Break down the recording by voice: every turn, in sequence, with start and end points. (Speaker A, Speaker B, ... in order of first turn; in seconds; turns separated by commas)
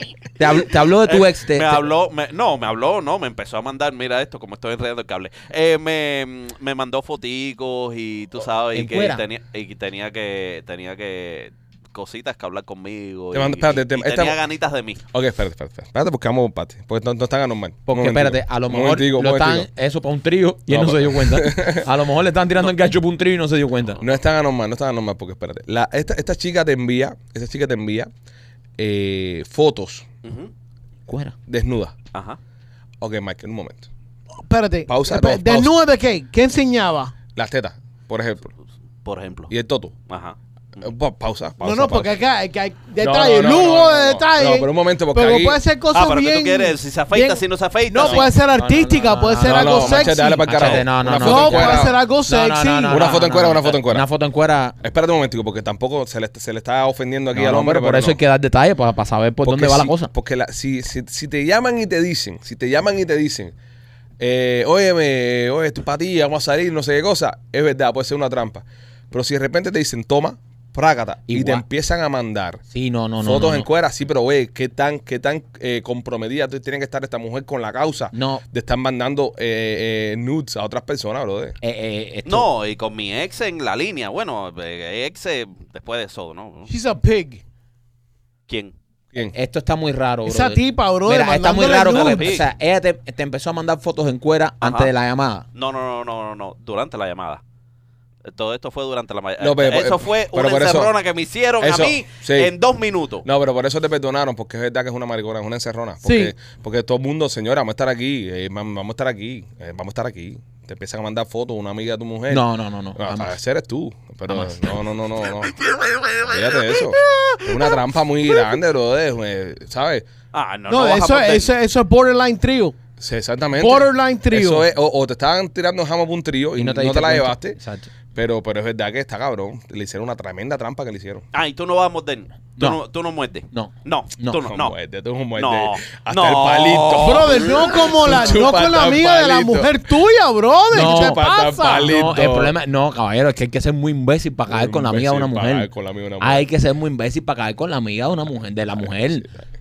Speaker A: 0.4-1.8, Speaker B: 1.0-15.0, Speaker A: 8.7-9.2, Speaker C: 13.3-14.4, Speaker C: 15.1-19.7, Speaker A: 17.9-24.0, Speaker C: 20.7-21.8, Speaker C: 24.0-28.1, Speaker C: 28.8-30.1, Speaker B: 30.2-30.5, Speaker A: 31.1-31.4, Speaker C: 31.5-31.9, Speaker C: 33.0-33.9, Speaker D: 34.4-37.1, Speaker C: 34.9-35.7, Speaker C: 37.3-38.5, Speaker B: 39.0-39.5, Speaker C: 39.5-39.9, Speaker B: 40.1-40.4, Speaker C: 40.8-42.1, Speaker D: 41.6-50.5, Speaker C: 43.0-45.6, Speaker B: 45.9-48.3, Speaker C: 48.0-48.2, Speaker A: 48.5-54.8, Speaker C: 49.4-52.0, Speaker B: 50.6-50.9, Speaker D: 51.0-53.1, Speaker C: 52.9-54.0, Speaker C: 54.8-58.2, Speaker A: 57.3-60.1, Speaker C: 59.4-63.5, Speaker C: 64.2-72.6, Speaker A: 71.3-71.6, Speaker A: 72.7-73.7, Speaker C: 73.2-81.6, Speaker A: 78.1-78.4, Speaker A: 81.6-82.5, Speaker B: 82.2-86.7, Speaker D: 86.7-87.4, Speaker B: 88.5-88.7, Speaker A: 89.3-95.5, Speaker D: 90.2-92.4, Speaker B: 91.7-92.5, Speaker B: 94.6-94.9, Speaker B: 95.5-97.4, Speaker B: 98.2-103.2, Speaker C: 99.4-100.9, Speaker C: 101.6-102.5, Speaker C: 103.2-115.5, Speaker D: 106.0-106.3, Speaker A: 112.3-113.3, Speaker A: 114.3-114.7, Speaker C: 116.2-120.1, Speaker B: 120.3-121.5, Speaker D: 120.7-122.8, Speaker C: 123.0-127.6, Speaker D: 123.5-124.7, Speaker A: 126.5-127.9, Speaker C: 128.1-131.2, Speaker B: 131.3-134.7, Speaker A: 133.5-134.4, Speaker C: 134.4-139.8, Speaker B: 135.4-137.5, Speaker D: 136.9-142.0, Speaker C: 140.7-142.5, Speaker A: 140.7-141.2, Speaker A: 141.7-145.7, Speaker C: 144.5-146.4, Speaker A: 146.2-149.3